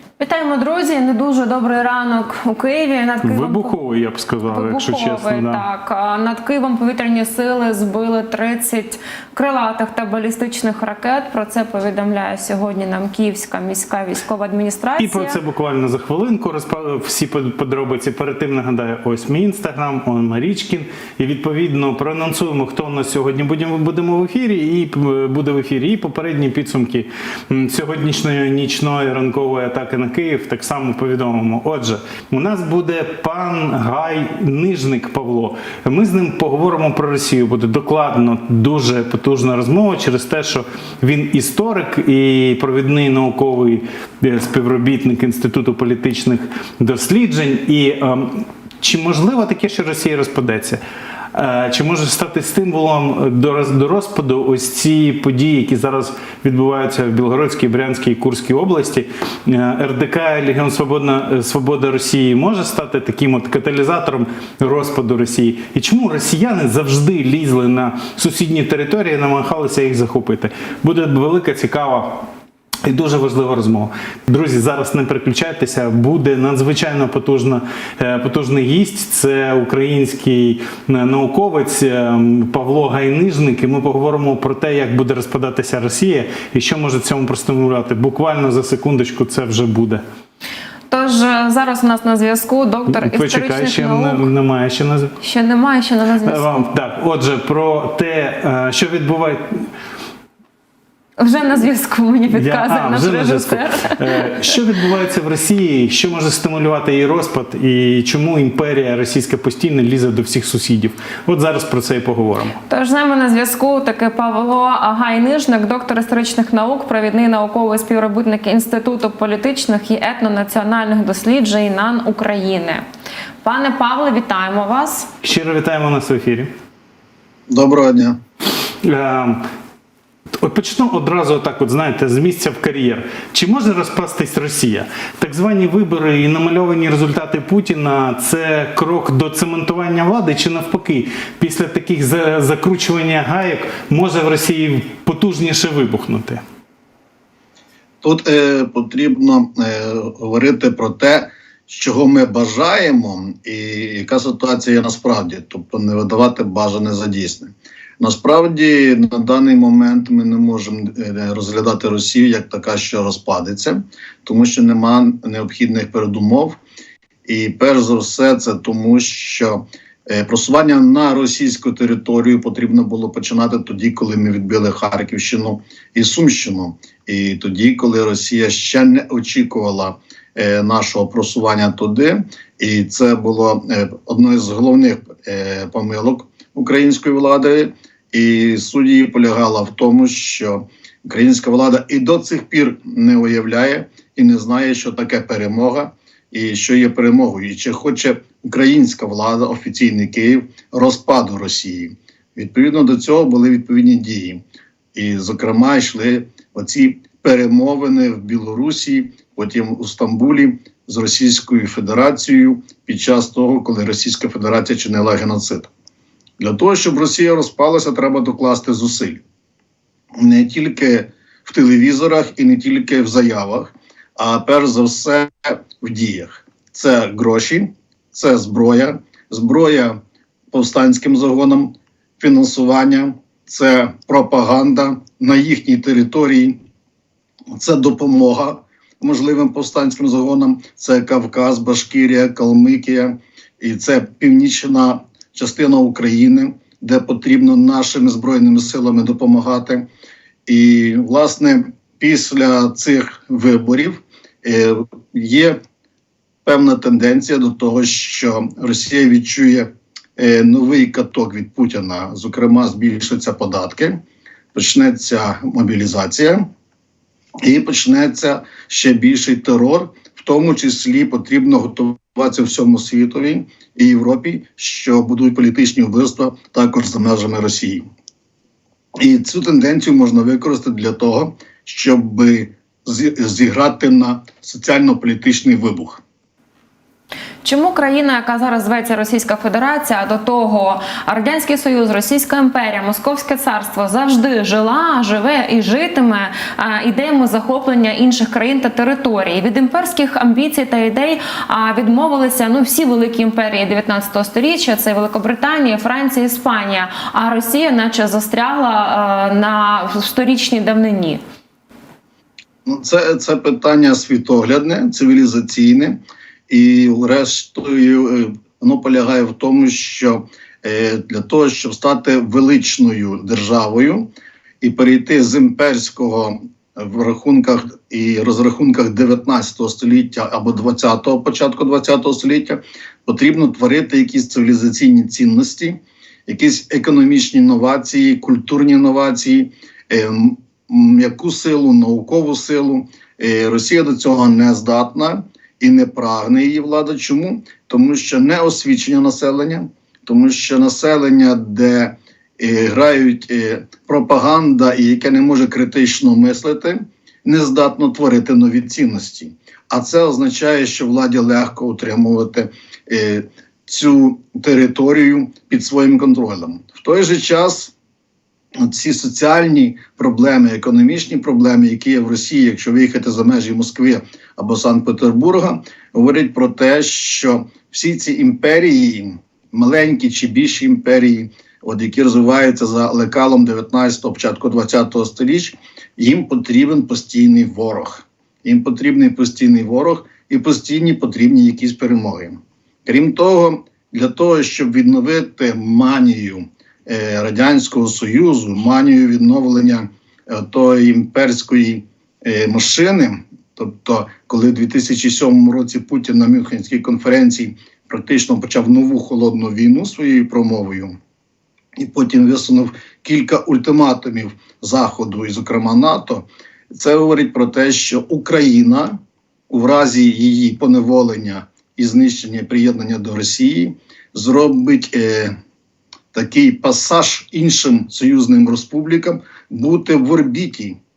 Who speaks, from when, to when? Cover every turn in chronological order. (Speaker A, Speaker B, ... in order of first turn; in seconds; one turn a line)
Speaker A: 0.2-3.7
Speaker B: 3.2-5.6
Speaker A: 4.5-15.4
Speaker B: 15.0-50.8
Speaker B: 51.3-72.3
Speaker B: 72.8-90.0
Speaker A: 90.9-94.3
Speaker B: 92.9-95.2
Speaker A: 95.2-96.7
Speaker B: 96.2-99.7
Speaker A: 101.2-104.5
Speaker B: 102.3-112.6
Speaker A: 112.7-122.8
Speaker A: 123.4-125.1
Speaker B: 125.2-126.5
Speaker C: 127.5-128.2
Speaker B: 128.8-129.5
Speaker B: 130.4-146.4
Speaker C: 148.0-166.6
Speaker C: 167.3-204.4
Speaker C: 204.9-215.7
Speaker C: 216.4-219.2
Speaker C: 220.2-230.0
Speaker C: 230.5-236.6
Speaker C: 237.5-249.9
Speaker C: 250.5-255.6
Speaker C: 256.4-264.0
Speaker C: 264.5-266.5
Speaker C: 267.4-277.8
Speaker C: 279.0-286.0
Speaker A: 287.4-311.2
Speaker C: 312.7-324.1
Speaker C: 324.6-367.7
Speaker C: 368.6-411.0
Speaker C: 411.8-425.4
Speaker C: 426.1-430.8